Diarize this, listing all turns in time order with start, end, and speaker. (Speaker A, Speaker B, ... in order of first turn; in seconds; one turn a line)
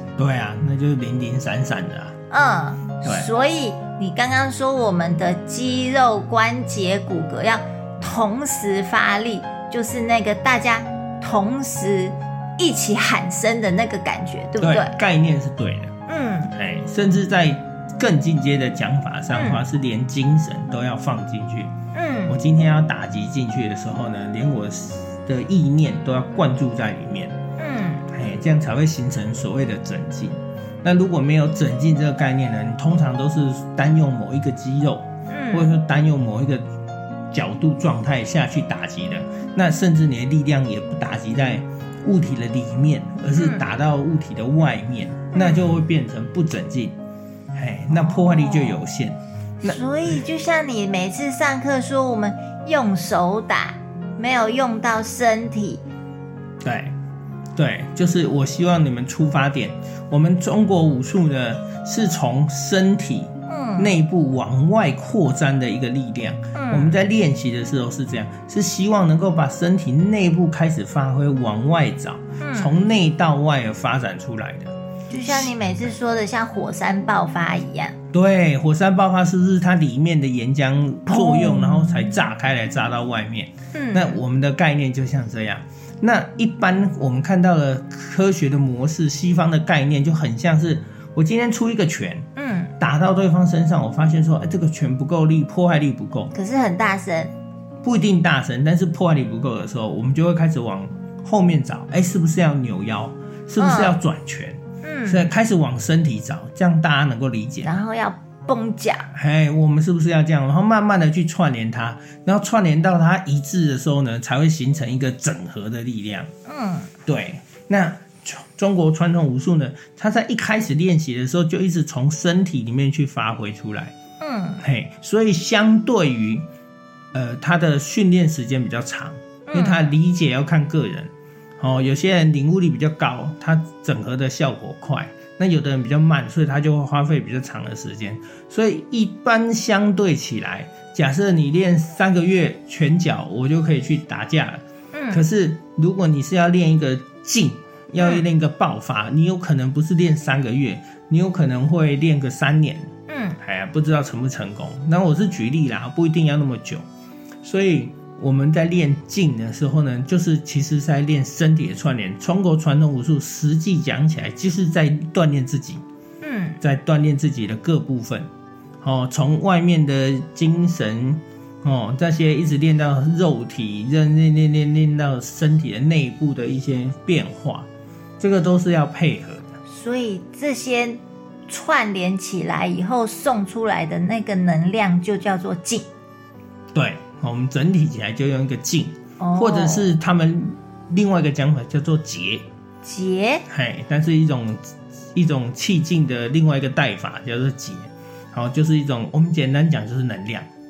Speaker A: 0.1-2.1
Speaker B: 2.3-14.9
Speaker A: 14.6-15.9
Speaker B: 16.1-16.5
Speaker A: 16.5-21.7
Speaker B: 19.3-19.6
Speaker B: 21.9-22.4
Speaker A: 22.3-27.4
Speaker B: 27.6-28.1
Speaker A: 28.1-36.6
Speaker B: 35.3-35.7
Speaker A: 37.3-47.0
Speaker B: 43.3-43.6
Speaker B: 45.3-45.7
Speaker A: 47.5-49.8
Speaker B: 47.9-48.8
Speaker B: 49.6-55.8
Speaker A: 56.6-56.9
Speaker A: 57.5-75.5
Speaker B: 63.5-63.9
Speaker B: 66.5-67.0
Speaker B: 72.4-72.8
Speaker B: 75.1-78.0
Speaker A: 78.1-92.3
Speaker B: 81.1-82.1
Speaker B: 83.7-84.2
Speaker B: 92.3-92.7
Speaker A: 92.8-96.3
Speaker B: 96.3-97.3
Speaker A: 97.8-107.8
Speaker B: 103.6-104.0
Speaker B: 104.8-105.3
Speaker B: 107.6-109.1
Speaker A: 109.1-116.3
Speaker B: 116.5-116.9
Speaker A: 117.0-123.9
Speaker B: 124.2-124.6
Speaker A: 124.6-126.5
Speaker A: 127.1-152.9
Speaker B: 129.5-129.8
Speaker B: 144.9-145.2
Speaker B: 148.0-148.2
Speaker B: 153.1-153.4
Speaker A: 153.4-156.8
Speaker A: 157.4-165.8
Speaker B: 166.2-166.6
Speaker A: 166.6-168.3
Speaker A: 168.8-177.7
Speaker A: 178.2-179.5
Speaker B: 179.7-185.9
Speaker A: 186.7-192.5
Speaker B: 189.2-189.9
Speaker B: 192.8-193.4
Speaker A: 193.5-200.5